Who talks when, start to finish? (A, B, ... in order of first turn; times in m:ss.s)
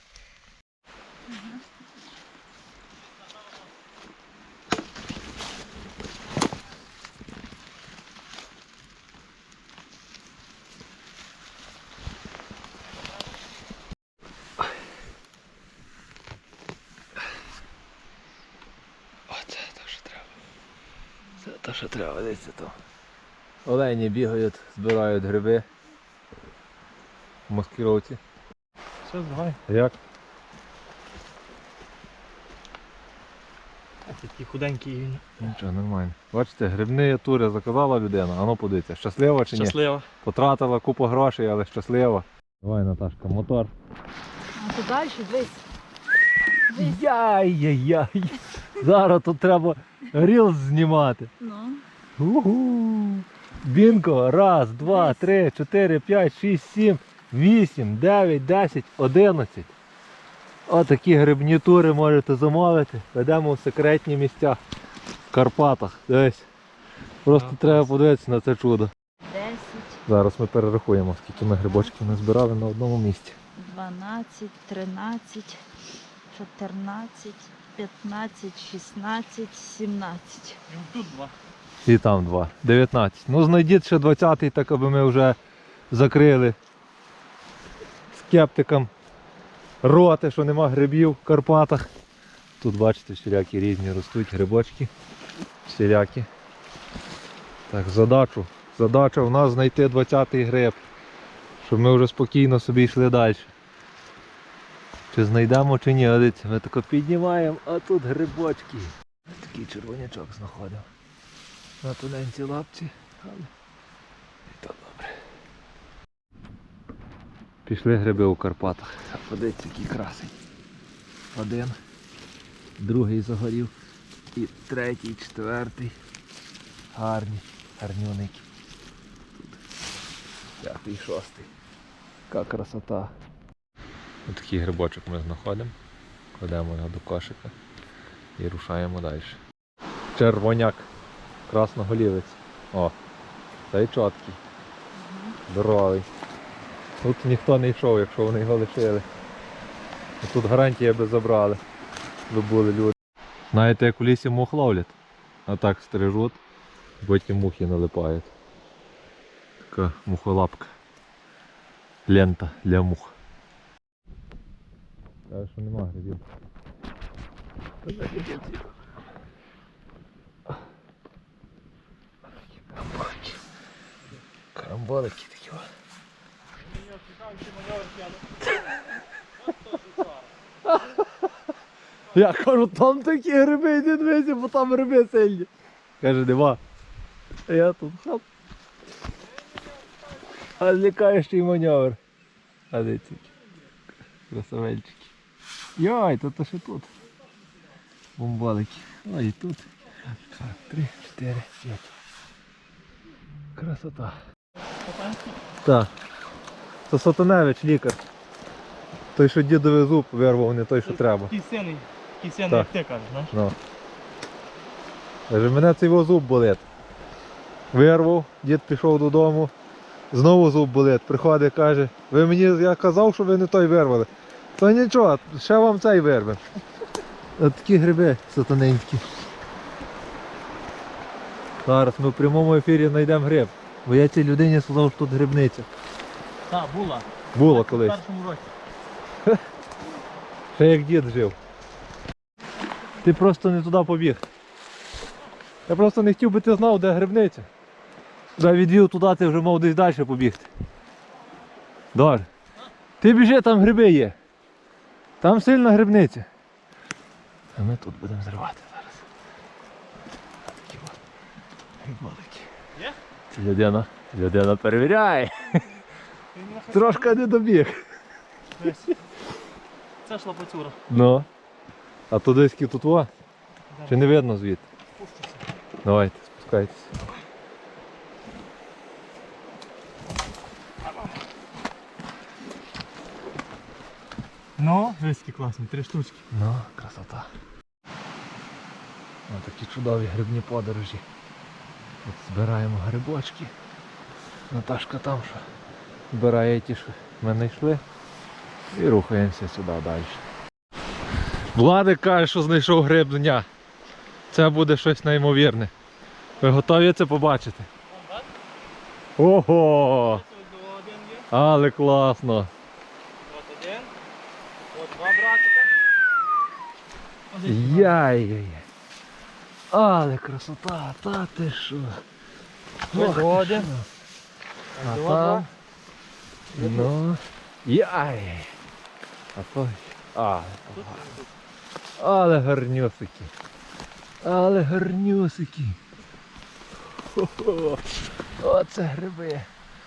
0:01.3-0:01.6 A
0:19.3-0:20.3 B
0:21.4-0:22.8 B
0:23.6-0:25.7 B
0:27.5-0:28.2 B
0:29.0-0:29.6 C
0:29.7-0:29.9 B
0:34.1-0:35.2 C
0:35.4-0:43.7 B
0:39.5-0:40.1 C
0:44.6-0:45.6 A
0:46.7-0:47.0 A
0:46.7-0:51.3 B
0:51.4-0:51.8 A
0:52.2-0:59.7 B
0:54.8-0:55.3 A
1:00.7-1:04.6 B
1:05.3-1:06.5 B
1:07.2-1:08.9 B
1:09.2-1:10.0 A
1:10.1-1:13.4 B
1:11.3-1:11.9 A
1:13.6-1:15.6 A
1:16.3-1:20.6 A
1:20.7-1:21.3 C
1:21.8-1:25.4 B
1:25.9-1:26.6 B
1:28.1-1:28.9 B
1:29.8-1:31.8 B
1:32.6-1:34.9 B
1:35.6-1:36.3 B
1:37.7-1:40.8 B
1:41.6-1:43.5 B
1:45.1-1:50.9 B
1:51.8-1:53.5 B
1:54.5-1:55.1 B
1:57.6-2:00.3 B
2:01.3-2:01.8 B
2:02.8-2:03.7 B
2:04.3-2:05.9 B
2:06.9-2:08.4 B
2:10.6-2:11.5 B
2:12.3-2:13.1 B
2:14.3-2:15.7 B
2:16.3-2:17.5 B
2:18.4-2:19.4 B
2:20.1-2:20.9 B
2:21.5-2:22.9 B
2:23.7-2:24.4 B
2:24.9-2:25.4 A
2:25.5-2:26.1 B
2:27.0-2:29.0 B
2:30.2-2:31.6 B
2:32.3-2:32.9 B
2:33.5-2:35.0 B
2:35.5-2:36.4 B
2:37.0-2:38.3 B
2:39.7-2:40.7 B
2:42.1-2:43.1 B
2:45.3-2:46.2 B
2:47.8-2:48.7 B
2:52.6-2:53.4 B
2:54.6-2:55.7 B
2:56.7-2:58.3 C
2:59.7-3:00.2 C
3:00.6-3:01.2 B
3:02.1-3:05.5 B
3:06.0-3:06.6 B
3:07.5-3:08.2 B
3:10.6-3:12.0 B
3:12.7-3:13.3 B
3:14.3-3:15.1 B
3:15.8-3:16.9 B
3:18.2-3:21.9 B
3:23.6-3:24.2 B
3:25.6-3:25.9 B
3:26.9-3:28.0 B
3:29.1-3:31.3 B
3:30.9-3:33.3 C
3:35.3-3:36.6 B
3:37.7-3:39.5 B
3:40.1-3:46.4 B
3:47.4-3:49.0 B
3:51.6-3:55.7 B
3:56.5-3:58.4 C
3:57.3-3:58.0 B
4:00.5-4:01.4 B
4:03.0-4:04.2 B
4:05.7-4:07.5 B
4:08.4-4:10.5 B
4:11.9-4:12.3 B
4:13.0-4:14.2 B
4:15.2-4:16.3 B
4:17.5-4:19.1 B
4:20.6-4:21.0 B
4:21.8-4:22.5 B
4:23.3-4:25.7 B
4:26.3-4:27.2 C
4:26.7-4:27.8 B
4:28.6-4:28.9 C
4:30.0-4:30.8 C
4:30.9-4:31.3 B
4:32.1-4:33.1 B
4:33.9-4:34.6 B
4:35.0-4:35.4 C
4:35.8-4:36.9 B
4:44.6-4:46.2 C
4:46.3-4:47.3 B
4:49.3-4:51.0 B
4:52.0-4:53.5 B
4:54.5-4:55.4 B
4:56.1-4:57.8 B
4:58.7-5:00.2 B
5:01.5-5:03.4 B
5:04.3-5:05.7 B
5:06.4-5:07.7 B
5:09.2-5:10.2 B
5:10.2-5:11.3 C
5:11.3-5:12.5 B
5:13.3-5:13.9 C
5:14.7-5:15.7 C
5:17.3-5:18.0 C
5:17.4-5:18.6 B
5:19.7-5:22.0 B
5:22.9-5:23.9 B
5:22.9-5:23.7 C
5:24.8-5:25.4 C
5:24.8-5:25.5 B
5:26.6-5:28.5 B
5:29.3-5:31.1 B
5:30.7-5:31.1 C
5:32.0-5:33.3 B
5:34.2-5:35.8 B
5:37.0-5:37.8 B
5:38.4-5:39.5 B